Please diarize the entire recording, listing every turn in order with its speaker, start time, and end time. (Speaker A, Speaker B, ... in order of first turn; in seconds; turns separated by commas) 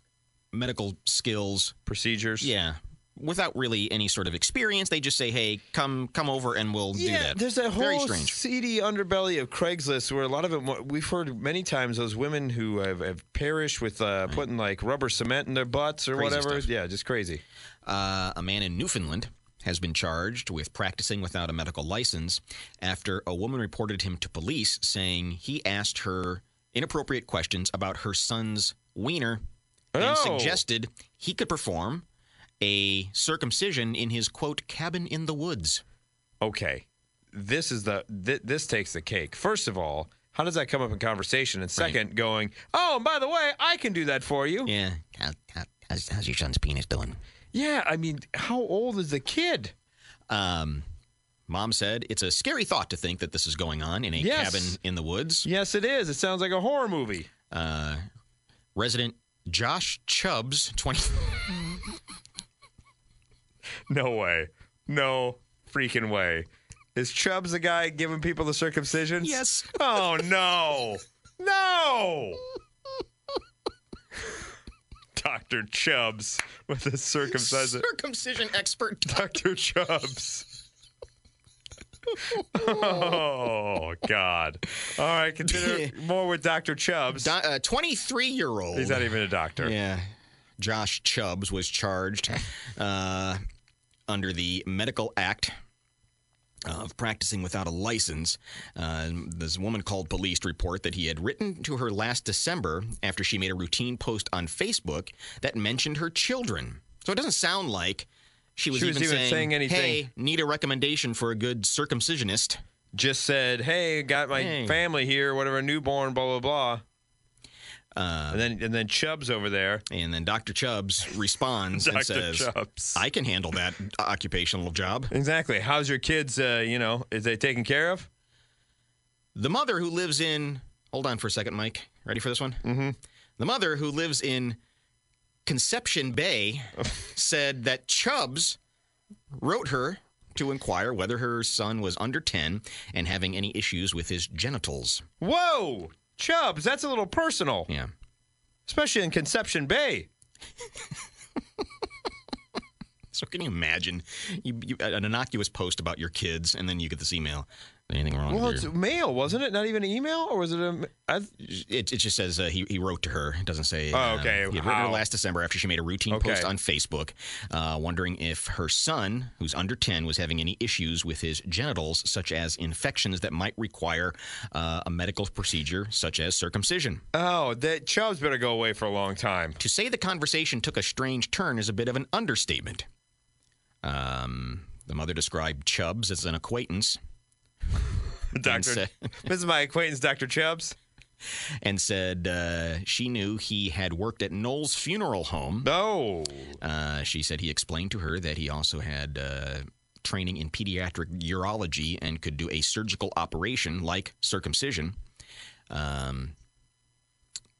Speaker A: 0.5-1.8, Speaker B: 1.9-2.5, Speaker A: 2.4-8.4, Speaker B: 6.9-17.4, Speaker A: 16.1-16.7, Speaker A: 17.9-29.4, Speaker B: 29.9-30.6, Speaker A: 30.0-32.1, Speaker A: 32.6-35.8, Speaker B: 36.4-44.7, Speaker A: 44.6-47.2, Speaker B: 47.5-49.7, Speaker A: 50.3-50.9, Speaker A: 51.5-55.5, Speaker B: 54.2-54.8, Speaker B: 55.5-57.3, Speaker A: 57.5-58.0, Speaker A: 58.8-61.8, Speaker B: 63.9-72.4, Speaker A: 69.2-70.2, Speaker B: 75.2-77.8, Speaker A: 77.3-79.4, Speaker B: 79.1-80.5, Speaker B: 82.5-87.3, Speaker A: 85.4-85.9, Speaker A: 87.1-93.4, Speaker B: 88.7-89.7, Speaker A: 94.1-95.5, Speaker A: 96.6-112.6, Speaker B: 108.7-110.0, Speaker B: 112.9-116.8, Speaker A: 114.3-114.8, Speaker A: 118.0-118.5, Speaker B: 118.3-119.8, Speaker A: 119.9-125.1, Speaker B: 121.7-123.0, Speaker B: 125.1-128.1, Speaker A: 129.3-132.6, Speaker B: 132.6-132.9, Speaker A: 133.4-134.6, Speaker A: 135.5-138.6, Speaker A: 139.4-145.1, Speaker B: 145.2-147.7, Speaker B: 148.7-150.1, Speaker A: 153.1-158.7, Speaker B: 158.3-161.3, Speaker A: 161.4-177.0, Speaker B: 163.9-165.0, Speaker B: 166.1-166.5, Speaker B: 177.1-179.6, Speaker A: 179.6-182.9, Speaker A: 183.8-187.0, Speaker B: 188.3-190.8, Speaker A: 188.4-189.3, Speaker A: 191.6-195.7, Speaker B: 195.6-196.6, Speaker A: 196.6-205.0, Speaker A: 205.7-206.3